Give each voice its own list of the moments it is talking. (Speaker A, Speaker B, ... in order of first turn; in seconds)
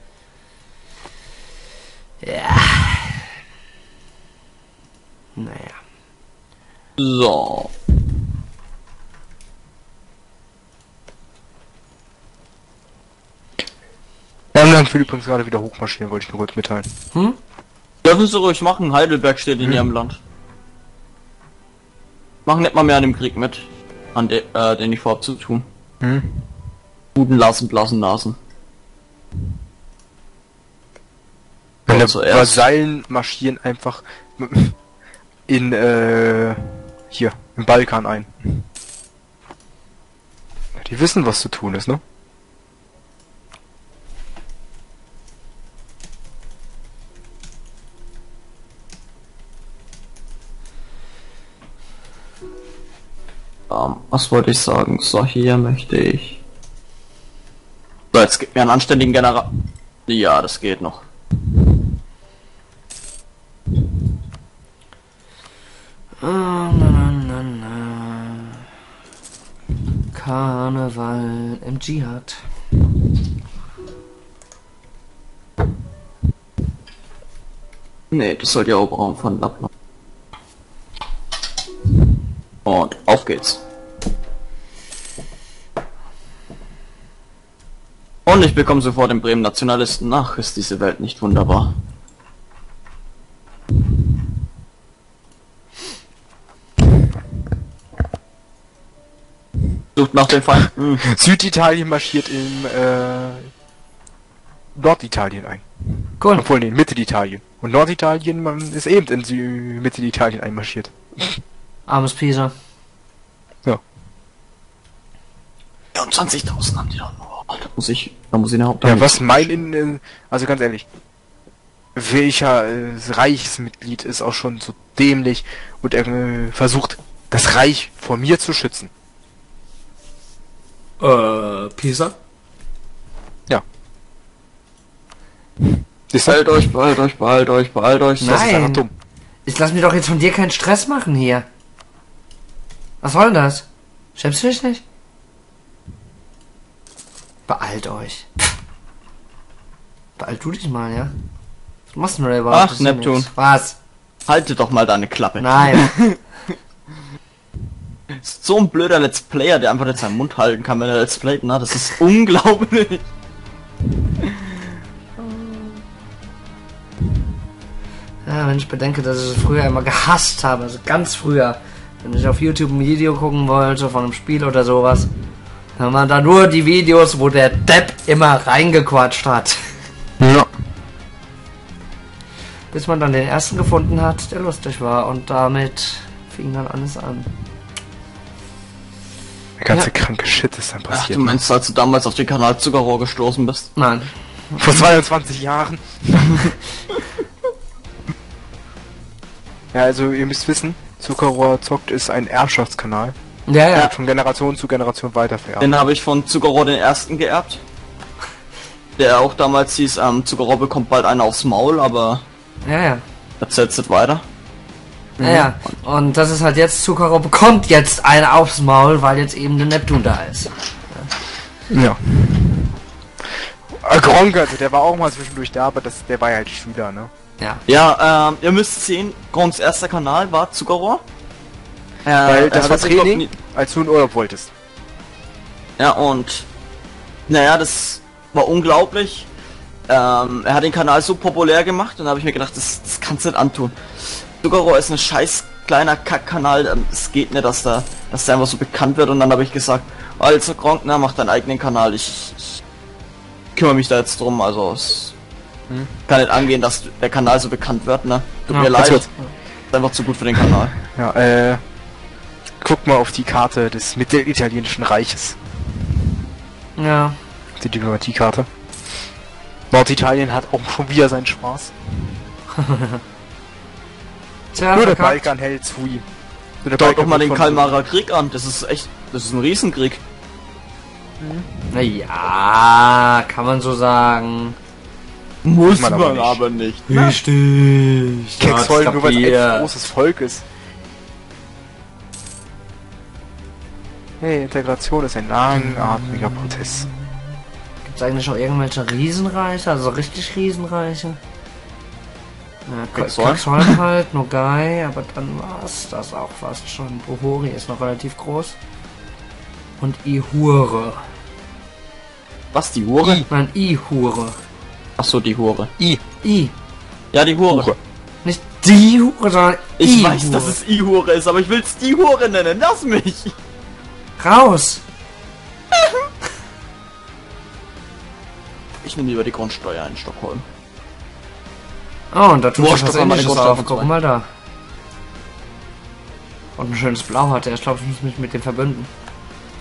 Speaker A: 2.2-3.3, 5.4-5.8, 66.2-68.6, 70.1-72.4, 106.2-106.5, 111.9-112.5, 131.0-132.2, 138.2-138.9, 139.5-141.5, 143.0-144.8, 147.5-148.3, 150.2-151.1, 151.9-153.8, 155.4-155.9, 165.2-165.8, 168.2-175.1, 175.8-179.6, 182.7-187.3, 193.8-194.9, 203.5-203.9, 212.6-213.0, 215.2-221.1, 258.5-259.3, 266.8-267.2, 272.6-273.0, 274.5-275.3, 281.7-284.6, 286.9-289.7, 295.9-296.4, 297.9-301.2, 302.7-308.6, 309.8-311.0, 313.1-314.4, 316.2-316.5, 318.2-320.6, 324.2-324.8, 332.1-334.3, 336.6-338.9
Speaker B: 7.0-7.7, 18.0-20.2, 22.5-25.6, 27.1-28.4, 31.9-32.6, 53.7-56.4, 58.1-59.5, 60.1-61.0, 78.1-79.7, 82.7-83.6, 88.3-91.7, 100.0-101.0, 115.9-119.6, 136.3-138.4, 152.5-153.3, 154.3-156.2, 158.1-163.0, 190.9-193.7, 205.6-207.6, 209.0-212.2, 213.4-214.2, 227.7-231.0, 232.1-233.3, 235.8-236.5, 237.3-239.3, 239.9-252.6, 253.6-255.2, 256.1-259.1, 259.7-260.8, 276.8-280.0, 285.4-287.2, 302.9-303.8, 312.5-313.3, 315.0-315.7, 317.1-317.8, 319.8-323.4, 328.8-330.4, 332.6-333.9
Speaker C: 14.5-16.9, 26.0-26.5, 31.9-34.8, 35.5-38.7, 40.8-42.0, 101.0-103.5, 104.8-105.7, 106.3-111.3, 118.8-120.8, 122.0-128.9, 136.1-136.7, 138.2-138.9, 180.2-180.5, 189.6-191.4, 194.6-196.5, 199.7-203.2, 203.7-205.7, 215.2-215.5, 221.7-222.8, 223.7-227.1, 232.2-234.5, 258.7-259.1, 260.9-261.6, 262.6-265.4, 267.6-268.5, 269.7-271.7, 274.7-276.1, 276.6-277.8, 281.2-281.7, 285.7-286.4, 288.4-290.5, 294.2-296.9, 317.5-317.8